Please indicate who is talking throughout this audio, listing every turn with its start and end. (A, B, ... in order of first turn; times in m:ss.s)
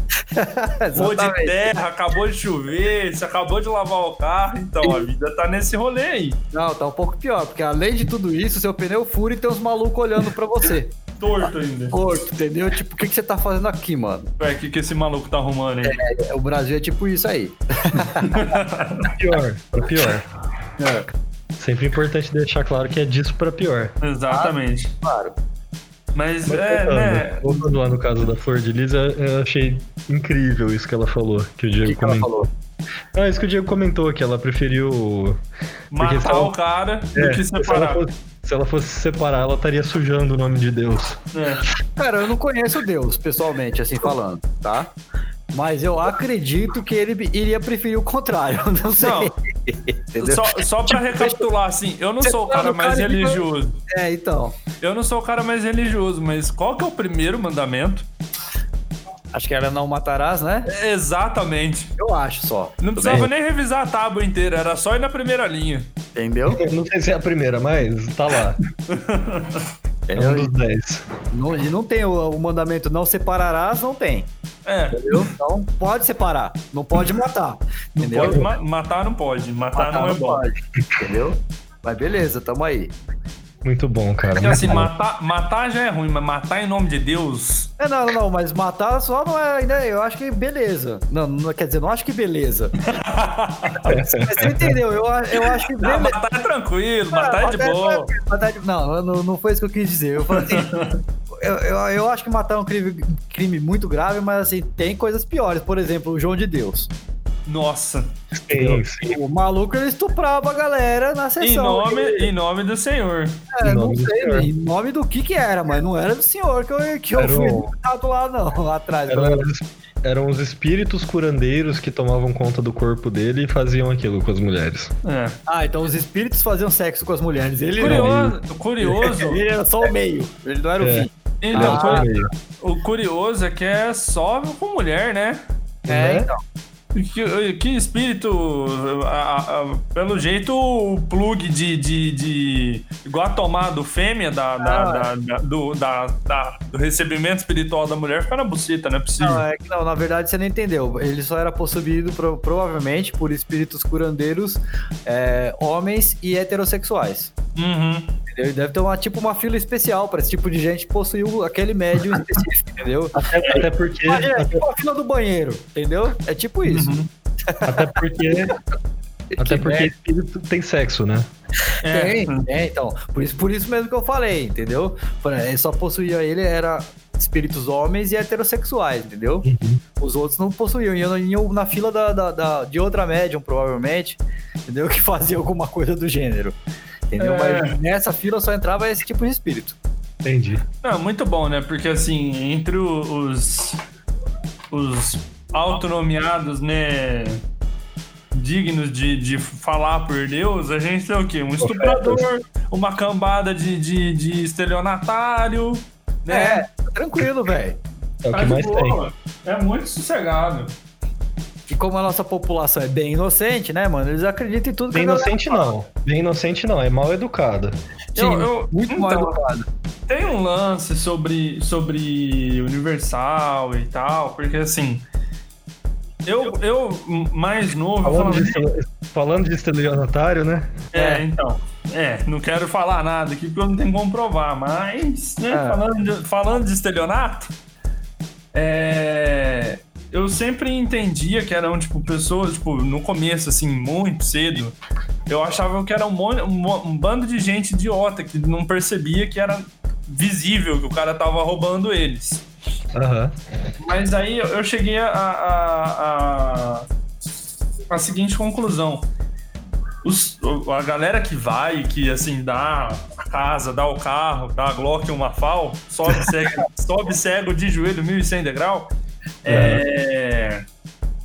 0:00.3-0:01.7 A
0:00.9-0:06.4 B
0:06.5-0:11.0 A
0:11.2-0:12.0 B
0:11.9-0:14.3 A
0:14.4-0:16.0 B
0:15.8-0:18.6 A
0:18.2-0:19.1 B
0:19.1-0:20.3 C
0:20.8-0:21.1 A
0:21.6-0:23.9 C
0:24.0-0:24.9 B
0:24.3-0:25.4 A
0:26.2-0:27.6 B
0:26.5-0:32.5 C
0:31.8-0:32.5 A
0:33.2-0:35.4 C
0:35.9-0:38.0 B
0:36.0-0:36.5 C
0:37.2-0:41.2 C
0:41.3-0:41.6 B
0:42.0-0:44.9 A
0:45.5-0:51.4 A
0:49.0-0:49.3 B
0:50.2-0:53.8 B
0:52.2-0:54.6 A
0:54.8-0:58.1 B
0:59.3-1:00.7 A
1:00.7-1:01.9 B
1:02.0-1:03.3 A
1:02.8-1:05.9 B
1:06.2-1:06.6 A
1:06.5-1:08.6 C
1:08.9-1:09.6 B
1:10.1-1:10.5 A
1:10.2-1:11.1 C
1:11.3-1:14.3 A
1:14.6-1:15.3 B
1:14.9-1:18.5 A
1:18.0-1:20.4 B
1:18.2-1:18.5 C
1:19.8-1:22.9 A
1:23.6-1:24.9 C
1:24.4-1:27.7 B
1:27.8-1:32.7 A
1:32.8-1:33.8 B
1:33.7-1:36.2 A
1:33.9-1:34.8 C
1:35.4-1:38.1 B
1:37.1-1:40.8 A
1:40.3-1:41.0 B
1:41.4-1:46.9 A
1:47.5-1:48.1 B
1:48.5-1:49.2 C
1:48.5-1:52.3 A
1:51.4-1:53.5 B
1:53.5-1:59.5 A
1:53.6-1:54.5 C
1:57.2-1:57.7 C
1:59.1-2:04.9 C
2:05.0-2:05.4 B
2:05.5-2:08.1 A
2:07.8-2:09.4 B
2:07.8-2:08.4 C
2:08.9-2:12.1 A
2:10.8-2:12.3 C
2:11.4-2:15.4 B
2:15.9-2:16.4 A
2:15.9-2:16.3 C
2:16.9-2:29.4 B
2:24.6-2:25.1 A
2:29.2-2:37.3 A
2:37.6-2:38.2 B
2:38.3-2:48.0 A
2:43.2-2:44.6 C
2:46.7-2:47.1 B
2:47.6-2:48.6 C
2:49.3-2:49.9 A
2:49.4-2:51.3 C
2:51.8-2:52.5 B
2:51.9-2:59.5 A
2:59.4-2:59.8 C
3:00.0-3:06.6 A
3:07.1-3:09.8 A
3:07.2-3:07.8 B
3:10.2-3:10.6 C
3:10.8-3:13.8 B
3:14.7-3:17.4 B
3:18.3-3:26.6 B
3:21.6-3:22.2 C
3:26.3-3:27.8 A
3:28.2-3:29.0 C
3:28.3-3:30.8 B
3:31.7-3:35.7 A
3:34.9-3:37.7 C
3:38.2-3:39.4 B
3:38.2-3:39.7 A
3:40.1-3:45.0 B
3:46.2-3:48.7 B
3:48.0-3:50.8 C
3:50.9-3:57.5 B
3:50.9-3:51.2 A
3:55.5-3:55.8 A
3:58.5-4:04.8 B
4:05.3-4:12.4 B
4:13.0-4:13.3 C
4:13.8-4:16.9 B
4:17.9-4:19.1 B
4:20.0-4:28.9 B
4:29.4-4:30.6 B
4:29.5-4:29.8 C